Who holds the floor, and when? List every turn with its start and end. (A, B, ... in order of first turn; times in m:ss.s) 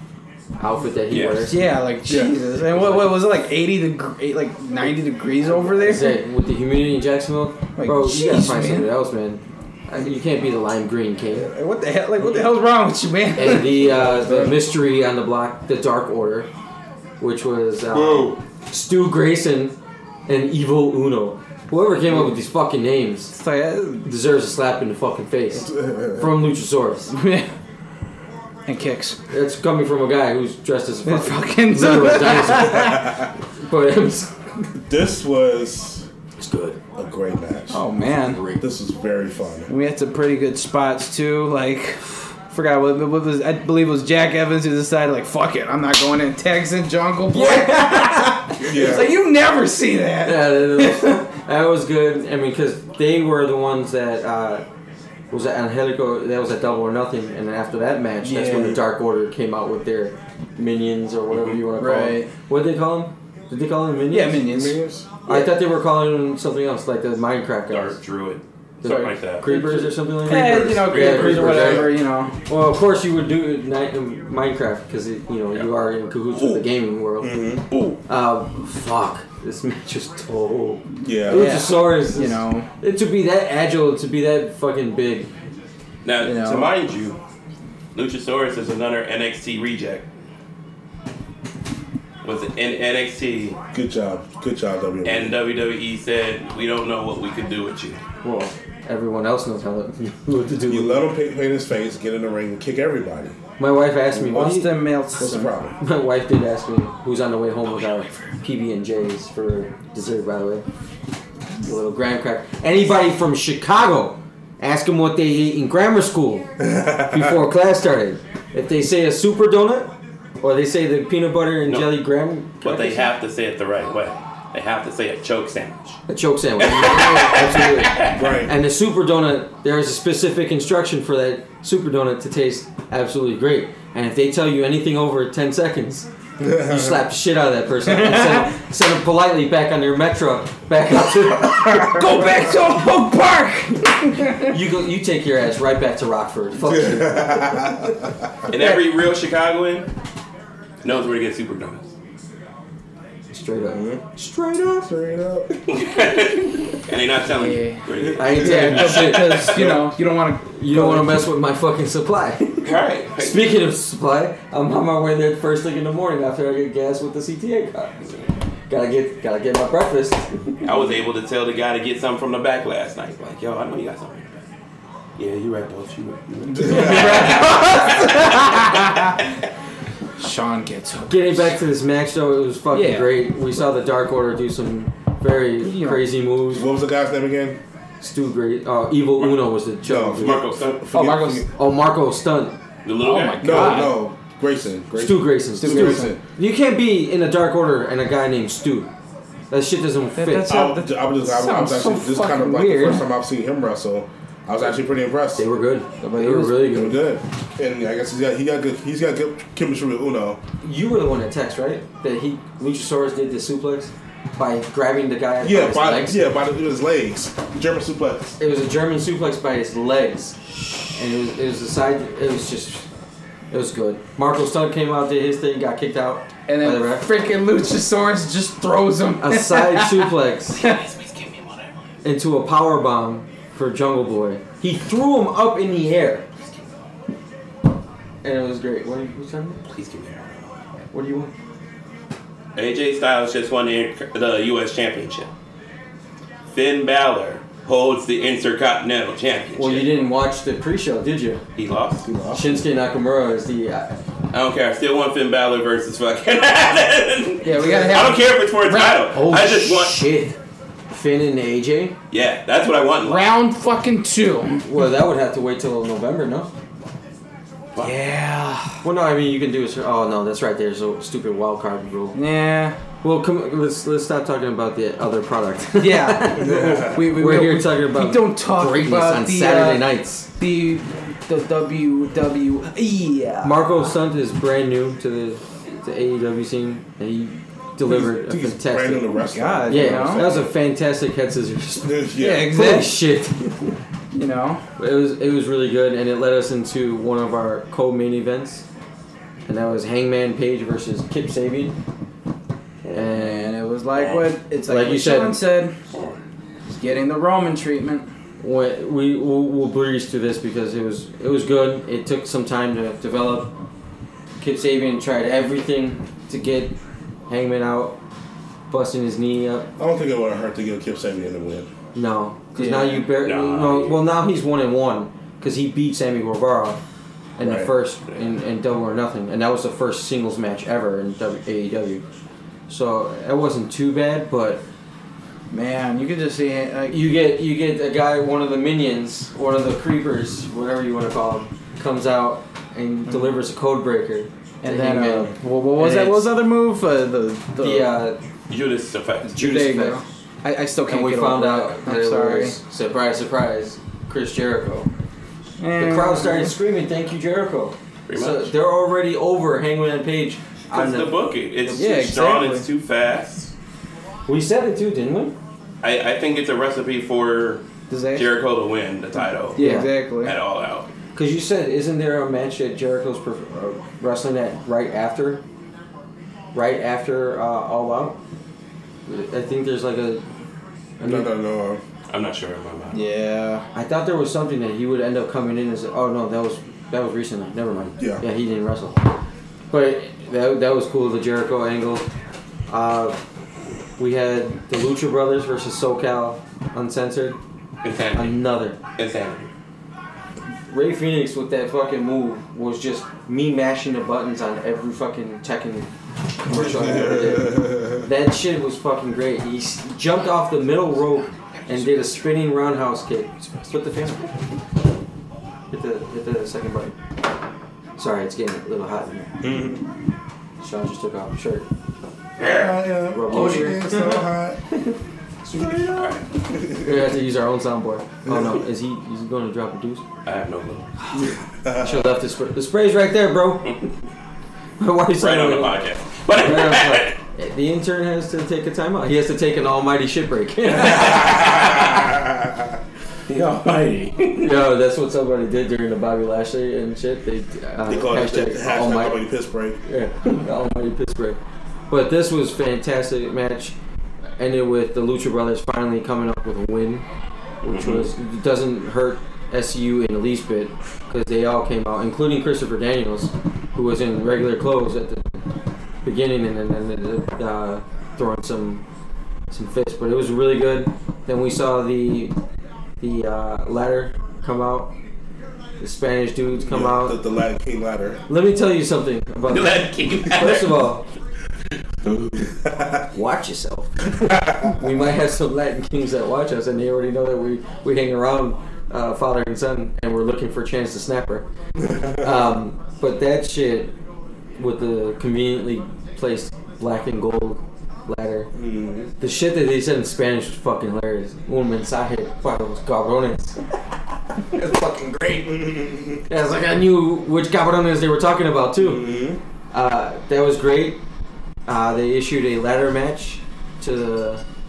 0:00.6-0:01.6 A
0:01.1-0:01.5 B
0:01.5-0:06.2 C
0:02.0-0:03.1 D
0:05.5-0:05.8 D
0:05.8-0:11.5 A
0:07.8-0:08.9 C
0:11.3-0:13.8 C
0:13.4-0:16.5 A
0:13.7-0:14.6 D
0:17.2-0:19.8 A
0:18.0-0:18.4 D
0:18.0-0:18.2 B
0:20.3-0:23.4 A
0:23.3-0:24.1 C
0:24.0-0:27.1 A
0:25.5-0:26.4 D
0:27.1-0:27.5 C
0:28.7-0:29.2 C
0:29.3-0:34.4 A
0:31.1-0:33.0 C
0:32.7-0:33.3 D
0:34.9-0:36.1 D
0:36.4-0:36.8 A
0:37.0-0:37.8 D
0:37.7-0:38.4 C
0:38.0-0:38.6 A
0:38.6-0:39.7 D
0:39.7-0:51.2 C
0:47.3-0:48.3 A
0:48.6-0:49.1 D
0:50.2-0:54.6 A
0:55.3-1:08.0 A
0:58.2-0:58.8 C
0:58.4-0:58.8 D
1:01.3-1:01.6 B
1:01.8-1:02.3 C
1:04.1-1:05.0 C
1:04.5-1:05.0 D
1:07.7-1:09.7 B
1:08.8-1:17.5 A
1:08.9-1:12.4 C
1:10.4-1:12.0 D
1:11.0-1:11.4 B
1:16.3-1:16.6 B
1:17.2-1:17.6 D
1:17.7-1:18.0 B
1:18.1-1:25.3 A
1:21.0-1:21.6 D
1:21.3-1:22.7 C
1:26.0-1:27.2 B
1:26.2-1:26.7 C
1:27.9-1:30.0 B
1:32.2-1:33.6 B
1:33.7-1:35.4 D
1:35.0-1:38.0 B
1:38.2-1:41.1 A
1:40.7-1:43.4 D
1:43.6-1:44.8 A
1:44.1-1:44.6 D
1:44.3-1:45.5 C
1:45.2-1:45.8 D
1:45.8-1:50.6 A
1:51.6-2:03.1 A
1:56.6-1:57.3 D
2:01.7-2:01.9 B
2:02.6-2:06.0 B
2:06.1-2:22.0 A
2:06.6-2:08.1 B
2:08.1-2:08.5 D
2:16.4-2:17.0 D
2:17.9-2:18.5 C
2:21.7-2:24.5 C
2:24.5-2:27.8 A
2:26.6-2:28.0 D
2:28.5-2:29.9 B
2:30.8-2:31.9 B
2:33.3-2:34.9 A
2:33.7-2:34.0 D
2:34.8-2:35.5 D
2:35.7-2:39.7 B
2:37.2-2:41.3 C
2:38.0-2:38.3 D
2:38.2-2:39.5 A
2:39.5-2:39.9 D
2:40.5-2:48.2 A
2:42.6-2:43.6 B
2:48.7-2:50.3 A
2:50.6-2:54.4 B
2:55.2-2:57.3 B
2:56.5-2:59.2 C
2:56.6-2:57.3 D
2:56.7-2:57.9 A
3:00.2-3:01.6 C
3:01.1-3:06.7 A
3:02.7-3:03.2 C
3:05.6-3:06.0 C
3:06.5-3:07.6 D
3:08.0-3:12.6 A
3:09.8-3:11.4 D
3:10.2-3:10.9 B
3:10.9-3:11.4 C
3:12.8-3:13.8 B
3:13.0-3:14.0 C
3:13.4-3:16.2 D
3:15.0-3:18.9 A
3:15.6-3:16.2 C
3:19.5-3:20.5 A
3:20.2-3:23.0 C
3:20.5-3:25.4 D
3:25.4-3:27.0 A
3:26.0-3:26.7 C
3:26.7-3:30.4 D
3:30.6-3:36.3 A
3:35.4-3:38.4 D
3:38.4-3:40.4 A
3:40.9-3:42.9 A
3:43.5-3:47.1 A
3:46.5-3:50.8 C
3:49.2-3:50.6 A
3:50.6-3:51.7 B
3:52.0-3:56.2 A
3:58.2-3:59.6 A
3:59.6-4:00.5 B
4:00.9-4:01.3 A
4:02.6-4:05.3 B
4:06.5-4:09.9 B
4:09.6-4:11.4 A
4:11.6-4:12.1 B
4:12.0-4:12.6 D
4:12.3-4:14.0 A
4:14.3-4:20.1 B
4:17.4-4:19.1 C
4:19.1-4:20.4 A
4:20.9-4:22.0 A
4:22.1-4:23.3 B
4:23.0-4:24.6 C
4:24.6-4:26.5 A
4:27.8-4:28.8 C
4:28.8-4:32.2 A
4:32.1-4:32.8 C
4:33.0-4:40.3 A
4:35.8-4:43.8 C
4:36.4-4:37.1 D
4:43.4-4:49.1 A
4:47.9-4:50.5 D
4:49.3-4:50.3 C
4:49.7-4:53.5 A
4:51.8-4:52.6 D
4:52.2-4:53.0 C
4:54.1-4:54.6 C
4:54.8-4:58.6 A
4:59.5-5:01.8 A
5:02.9-5:03.5 A
5:03.0-5:05.8 C
5:04.0-5:04.3 B
5:04.7-5:05.4 A
5:05.9-5:06.2 B
5:06.7-5:08.1 C
5:08.4-5:13.5 A
5:14.4-5:16.8 A
5:17.3-5:18.0 A
5:18.7-5:19.7 A
5:19.8-5:21.7 D
5:22.0-5:26.8 A
5:22.6-5:23.1 C
5:23.2-5:24.0 B
5:27.4-5:32.0 A
5:27.4-5:27.7 D
5:32.7-5:34.6 A
5:35.5-5:37.0 C
5:36.9-5:46.3 A
5:43.1-5:43.4 C
5:44.6-5:47.9 C
5:47.6-5:48.2 A
5:48.5-5:49.3 B
5:49.3-5:52.6 C
5:49.4-5:50.0 A
5:50.9-5:54.9 A
5:55.6-5:56.5 C
5:55.8-6:01.9 A
5:58.1-5:58.5 B
6:00.7-6:03.5 B
6:01.7-6:02.7 C
6:04.3-6:05.4 A
6:05.8-6:09.6 B
6:07.9-6:08.3 C
6:09.6-6:10.4 C
6:09.6-6:09.9 A
6:10.2-6:10.9 B
6:11.2-6:15.4 A
6:16.5-6:18.2 A
6:19.1-6:20.2 A
6:21.0-6:21.3 A
6:21.0-6:21.8 D
6:22.1-6:23.0 B
6:22.9-6:23.6 C
6:23.7-6:29.1 A
6:28.0-6:28.2 D
6:29.7-6:32.1 A
6:32.7-6:33.2 A
6:34.0-6:37.4 A
6:37.8-6:38.4 B
6:38.1-6:38.8 A
6:39.0-6:39.5 B
6:40.7-6:45.9 A
6:46.4-6:54.3 A
6:46.5-6:48.0 D
6:55.7-6:56.9 A
6:58.0-6:59.3 A
6:59.4-6:59.8 D
7:00.6-7:01.7 A
7:02.4-7:04.6 D
7:02.6-7:04.2 C
7:03.1-7:04.1 A
7:04.7-7:06.1 A
7:05.6-7:05.8 D
7:05.9-7:06.3 B
7:06.5-7:07.0 D
7:06.8-7:10.0 A
7:08.3-7:08.5 D
7:10.2-7:10.9 B
7:11.1-7:12.1 D
7:11.8-7:13.8 A
7:14.8-7:21.7 A
7:15.2-7:17.2 B
7:20.9-7:21.9 B
7:23.3-7:24.6 B
7:24.4-7:29.2 A
7:27.9-7:29.8 D
7:29.9-7:33.8 A
7:34.4-7:37.0 A
7:37.6-7:45.4 A
7:37.7-7:38.1 B
7:46.0-7:48.8 A
7:49.5-7:52.4 A
7:53.0-7:54.9 A
7:55.8-7:57.2 A
7:56.6-7:58.2 D
7:58.3-8:01.0 A
7:59.5-8:00.9 B
8:02.0-8:02.5 B
8:03.1-8:11.5 A
8:11.8-8:12.4 D
8:12.2-8:13.9 A
8:14.6-8:18.5 A
8:18.5-8:19.1 D
8:19.2-8:23.6 A
8:24.6-8:25.4 A
8:25.3-8:26.2 D
8:26.3-8:29.2 A
8:28.8-8:29.4 D
8:29.7-8:31.0 A
8:31.7-8:34.4 A